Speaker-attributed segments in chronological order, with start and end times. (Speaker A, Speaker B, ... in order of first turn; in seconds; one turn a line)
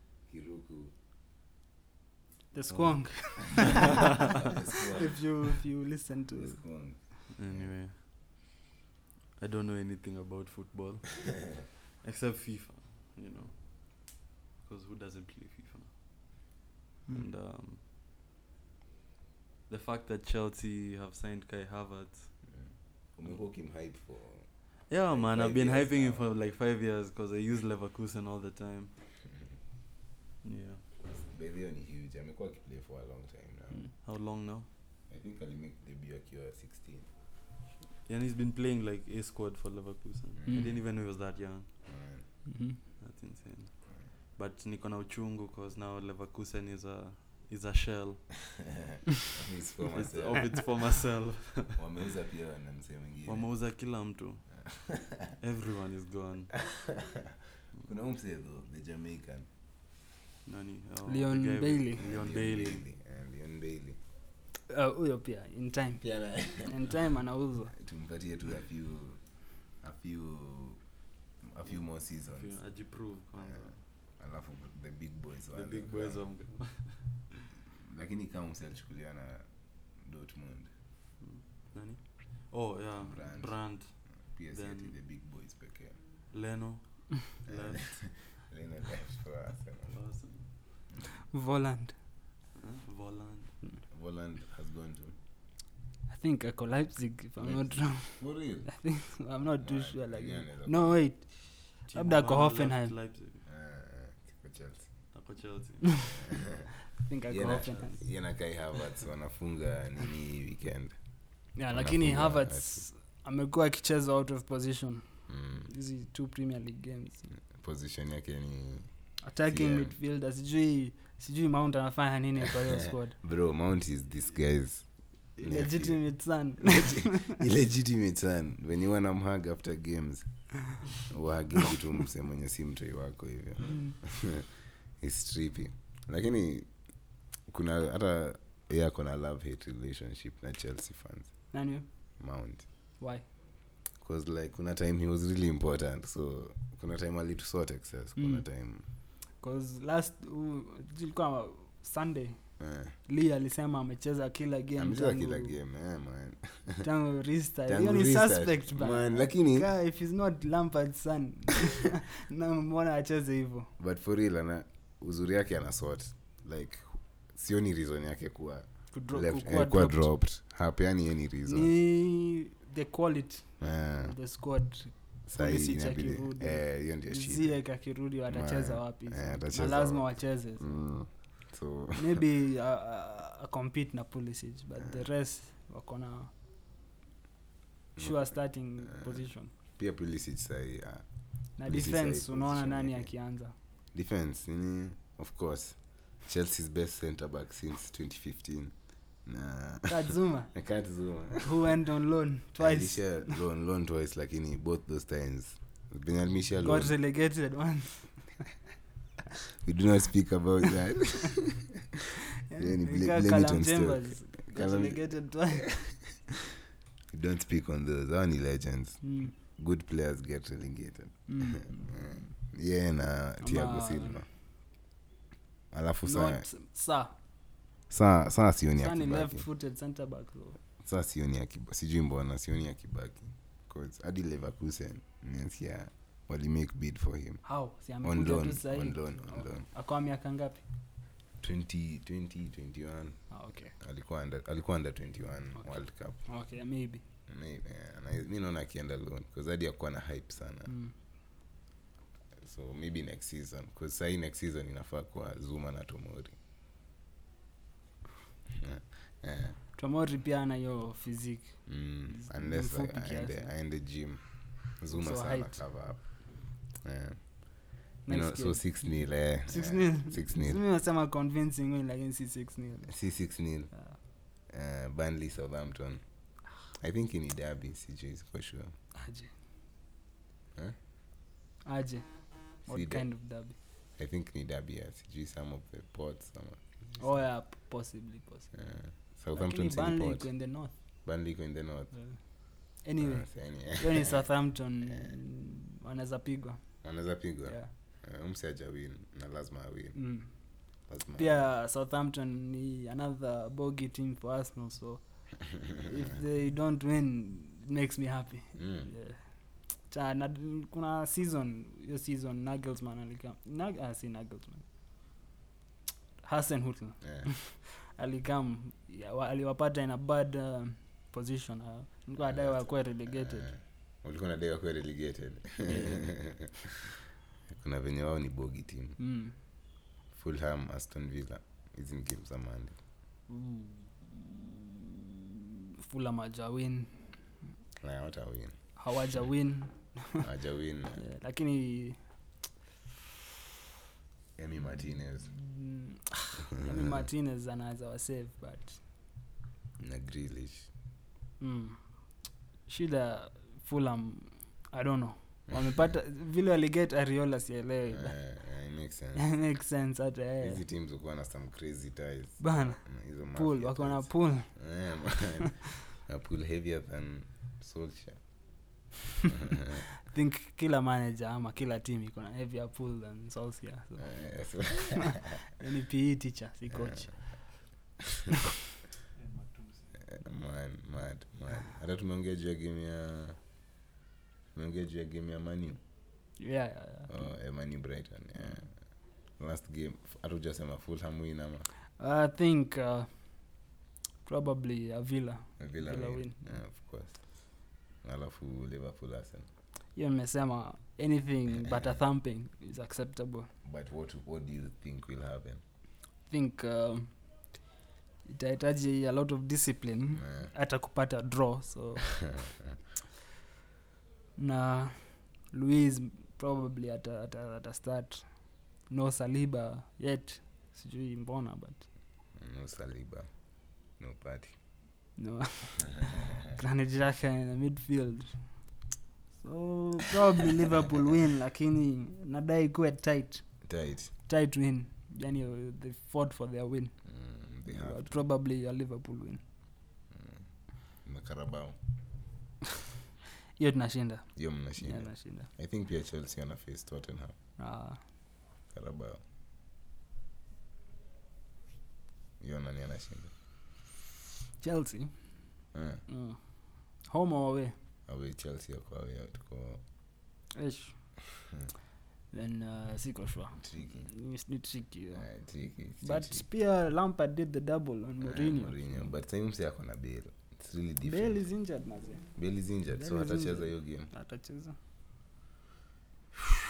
Speaker A: 0.3-0.9
Speaker B: 2.5-4.0
Speaker A: 2.7-5.6
Speaker B: 4.9-6.6
Speaker A: 6.4-7.8
Speaker C: 7.3-8.0
Speaker C: 9.4-15.9
Speaker C: 17.1-17.8
Speaker C: 19.7-22.5
Speaker A: 22.5-24.5
Speaker C: 24.9-28.9
Speaker A: 25.0-26.2
Speaker C: 30.4-30.8
Speaker A: 31.1-33.9
Speaker C: 34.0-34.7
Speaker A: 35.1-37.1
Speaker C: 38.0-41.7
Speaker A: 40.4-40.8
Speaker A: 41.8-42.2
Speaker B: 42.5-42.8
Speaker C: 43.0-48.3
Speaker A: 49.3-50.7
Speaker C: 49.9-51.8
Speaker A: 51.8-53.5
Speaker C: 53.2-54.5
Speaker A: 54.6-55.3
Speaker C: 55.4-56.6
Speaker A: 56.7-57.0
Speaker A: 57.8-59.5
Speaker C: 60.4-62.8
Speaker B: 61.1-62.0
Speaker A: 62.0-64.0
Speaker B: 64.7-67.7
Speaker A: 66.0-66.9
Speaker A: 67.8-70.8
Speaker A: 71.4-72.6
Speaker C: 72.3-73.9
Speaker A: 73.4-76.3
Speaker C: 75.5-77.3
Speaker A: 77.8-80.7
Speaker C: 81.2-84.9
Speaker A: 83.0-86.0
Speaker C: 86.3-88.4
Speaker A: 87.5-90.0
Speaker C: 89.9-90.5
Speaker B: 91.3-91.9
Speaker C: 92.5-93.5
Speaker A: 93.9-95.2
Speaker B: 96.1-102.9
Speaker A: 97.4-98.8
Speaker A: 99.6-101.0
Speaker C: 101.8-103.4
Speaker A: 103.5-104.9
Speaker C: 105.1-106.1
Speaker B: 107.0-108.0
Speaker A: 107.2-110.9
Speaker C: 107.5-107.9
Speaker A: 111.5-112.8
Speaker B: 111.5-117.3
Speaker A: 115.3-115.7
Speaker A: 117.5-118.9
Speaker B: 119.2-123.2
Speaker A: 119.4-119.9
Speaker A: 122.8-126.0
Speaker B: 125.4-127.4
Speaker A: 126.6-130.2
Speaker A: 130.9-136.7
Speaker A: 137.4-141.3
Speaker B: 141.5-141.8
Speaker A: 142.2-142.7
Speaker B: 143.0-143.2
Speaker A: 144.0-148.8
Speaker B: 148.2-148.4
Speaker B: 149.4-152.4
Speaker A: 152.6-152.9
Speaker B: 153.0-155.6
Speaker A: 154.8-156.8
Speaker B: 156.8-163.7
Speaker A: 157.7-159.7
Speaker A: 163.8-171.7
Speaker B: 168.9-170.1
Speaker B: 171.5-180.7
Speaker A: 173.6-174.1
Speaker A: 175.3-177.6
Speaker A: 178.3-182.2
Speaker B: 182.0-186.3
Speaker A: 187.9-188.2
Speaker B: 188.0-189.5
Speaker A: 188.9-189.2
Speaker A: 189.8-191.0
Speaker B: 191.6-193.5
Speaker A: 191.6-193.1
Speaker A: 193.9-198.7
Speaker A: 199.2-200.0
Speaker B: 199.9-200.5
Speaker A: 200.5-201.7
Speaker B: 201.4-203.3
Speaker A: 202.6-206.9
Speaker B: 206.6-208.2
Speaker A: 209.6-211.8
Speaker B: 212.5-215.7
Speaker A: 212.6-215.0
Speaker A: 215.6-216.0
Speaker A: 217.1-224.3
Speaker B: 219.0-219.3
Speaker B: 221.3-222.3
Speaker B: 223.4-224.2
Speaker A: 225.7-226.4
Speaker B: 226.0-227.1
Speaker A: 227.9-229.4
Speaker B: 228.8-230.6
Speaker A: 230.8-237.4
Speaker B: 237.4-240.6
Speaker A: 238.0-239.7
Speaker A: 241.4-246.2
Speaker B: 243.3-243.7
Speaker B: 245.6-247.0
Speaker A: 247.3-250.7
Speaker B: 250.7-250.9
Speaker A: 252.4-256.3
Speaker A: 258.6-259.6
Speaker B: 259.8-263.5
Speaker A: 261.6-270.6
Speaker B: 264.9-265.6
Speaker B: 268.1-272.9
Speaker A: 272.9-273.7
Speaker A: 274.4-276.0
Speaker A: 276.5-278.7
Speaker B: 278.9-279.3
Speaker B: 281.6-283.6
Speaker A: 282.7-283.1
Speaker A: 284.0-287.2
Speaker B: 287.0-288.5
Speaker A: 288.5-290.3
Speaker B: 289.3-290.7
Speaker A: 291.0-292.0
Speaker B: 292.8-296.6
Speaker A: 293.0-294.2
Speaker A: 296.8-300.1
Speaker B: 299.9-300.3
Speaker A: 300.9-301.5
Speaker B: 301.1-314.6
Speaker A: 308.6-308.9
Speaker B: 316.2-323.5
Speaker A: 317.0-317.3
Speaker A: 322.3-326.9
Speaker B: 325.7-326.1
Speaker A: 327.5-329.0
Speaker B: 329.0-329.3
Speaker A: 330.1-332.8
Speaker B: 333.3-335.1
Speaker B: 335.8-337.0
Speaker A: 337.8-338.6
Speaker B: 338.8-340.2
Speaker A: 340.2-341.0
Speaker B: 341.0-342.0
Speaker A: 344.4-345.3
Speaker B: 345.3-348.8
Speaker A: 346.6-347.0
Speaker A: 349.8-350.7
Speaker B: 351.4-351.8
Speaker B: 352.7-358.2
Speaker A: 357.9-359.3
Speaker B: 359.1-360.6
Speaker A: 360.4-368.2
Speaker B: 362.4-364.6
Speaker A: 369.3-369.8
Speaker B: 370.1-374.2
Speaker A: 374.0-375.3
Speaker B: 375.0-377.5
Speaker C: 379.1-380.1
Speaker A: 380.1-383.4
Speaker A: 384.5-385.8
Speaker B: 386.4-387.1
Speaker A: 387.1-388.8
Speaker A: 389.3-391.7
Speaker B: 392.0-393.4
Speaker B: 394.2-396.4
Speaker A: 395.6-397.2
Speaker A: 398.0-399.5
Speaker B: 399.9-403.5
Speaker A: 403.6-405.6
Speaker B: 406.3-407.1
Speaker B: 408.2-412.3
Speaker A: 410.2-410.5
Speaker B: 414.4-418.3
Speaker B: 418.9-421.9
Speaker A: 422.4-423.3
Speaker A: 424.0-424.6
Speaker B: 425.2-428.6
Speaker B: 429.4-433.6
Speaker A: 433.6-434.1
Speaker B: 434.2-437.0
Speaker A: 437.0-438.1
Speaker B: 437.7-439.4
Speaker A: 440.1-440.5
Speaker A: 441.0-441.8
Speaker B: 443.6-445.5
Speaker A: 444.3-447.4
Speaker B: 447.6-448.0
Speaker A: 448.7-449.2
Speaker A: 452.4-453.3
Speaker B: 454.6-455.1
Speaker A: 455.7-456.0
Speaker B: 456.1-456.4
Speaker B: 457.0-457.7
Speaker A: 458.1-459.8
Speaker B: 460.5-461.0
Speaker B: 462.3-465.3
Speaker A: 463.6-464.1
Speaker A: 465.1-466.4
Speaker B: 466.0-469.1
Speaker A: 468.2-471.4
Speaker B: 471.0-472.3
Speaker A: 472.3-474.1
Speaker B: 472.9-474.8